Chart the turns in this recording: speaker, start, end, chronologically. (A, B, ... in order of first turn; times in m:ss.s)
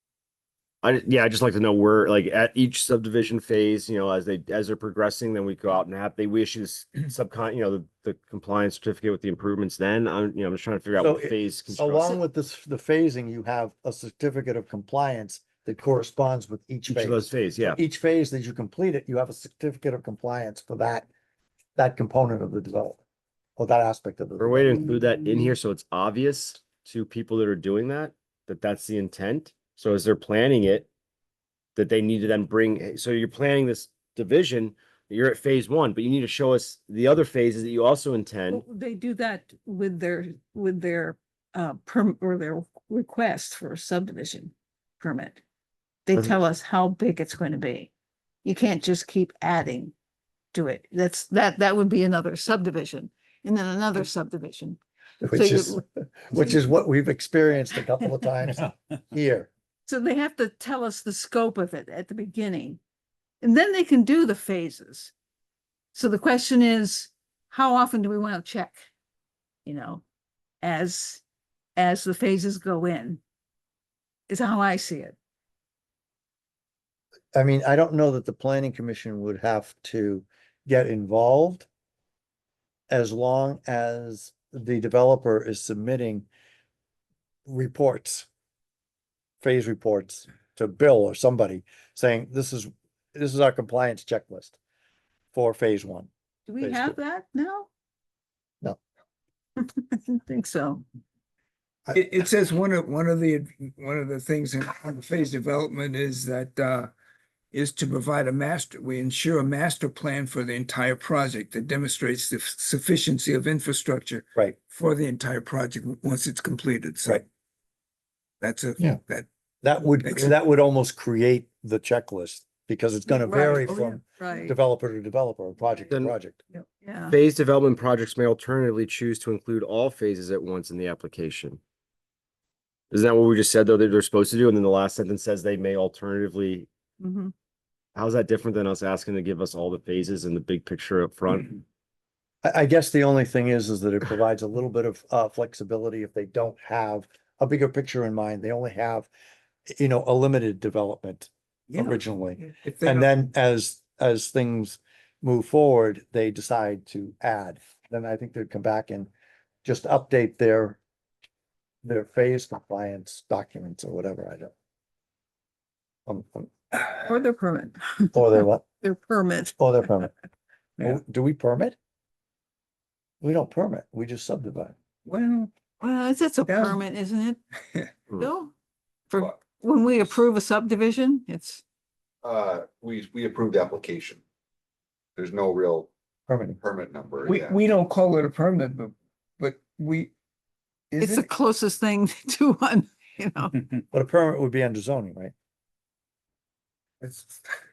0:00.8-0:12.2 A
0:11.0-0:21.1 B
0:16.9-0:17.8 A
0:21.8-0:23.0 B
0:23.6-0:24.9 B
0:24.4-0:30.9 A
0:31.8-0:38.6 A
0:38.5-0:45.4 C
0:46.1-0:47.9 C
0:48.4-0:49.9 C
0:50.5-0:54.8 C
0:55.2-0:59.5 B
0:55.3-0:56.7 C
0:59.8-1:02.8 C
1:03.4-1:05.1 C
1:05.9-1:08.8 C
1:09.6-1:10.0 C
1:10.6-1:11.2 C
1:11.8-1:13.2 C
1:14.3-1:15.2 C
1:17.3-1:21.7 B
1:22.9-1:26.3 B
1:27.4-1:28.3 B
1:29.4-1:34.6 B
1:35.3-1:36.1 B
1:36.5-1:37.7 C
1:36.6-1:37.0 B
1:39.6-1:40.8 C
1:41.9-1:46.9 D
1:47.5-1:57.2 D
1:58.4-1:59.3 D
1:59.6-2:06.4 B
2:00.0-2:00.3 D
2:03.1-2:04.6 C
2:06.5-2:07.2 C
2:07.1-2:11.6 A
2:12.9-2:16.7 A
2:17.0-2:17.3 C
2:17.9-2:21.6 A
2:22.4-2:29.1 B
2:29.7-2:39.1 B
2:31.7-2:33.1 D
2:39.6-2:40.8 B
2:41.8-2:44.5 B
2:46.1-2:46.5 B
2:46.7-2:47.0 D
2:47.0-2:49.6 C
2:48.1-2:48.6 B
2:49.6-2:50.1 B
2:50.8-2:51.8 B
2:53.2-2:54.7 B
2:55.0-2:55.5 D
2:55.8-2:57.4 C
2:56.4-2:56.8 D
2:58.2-2:58.5 C
2:59.1-3:01.6 C
3:02.2-3:04.2 E
3:05.2-3:05.9 E
3:06.3-3:06.6 B
3:06.6-3:07.6 E
3:07.2-3:10.1 D
3:10.9-3:11.3 D
3:11.0-3:13.5 C
3:13.9-3:15.3 B
3:17.0-3:17.5 D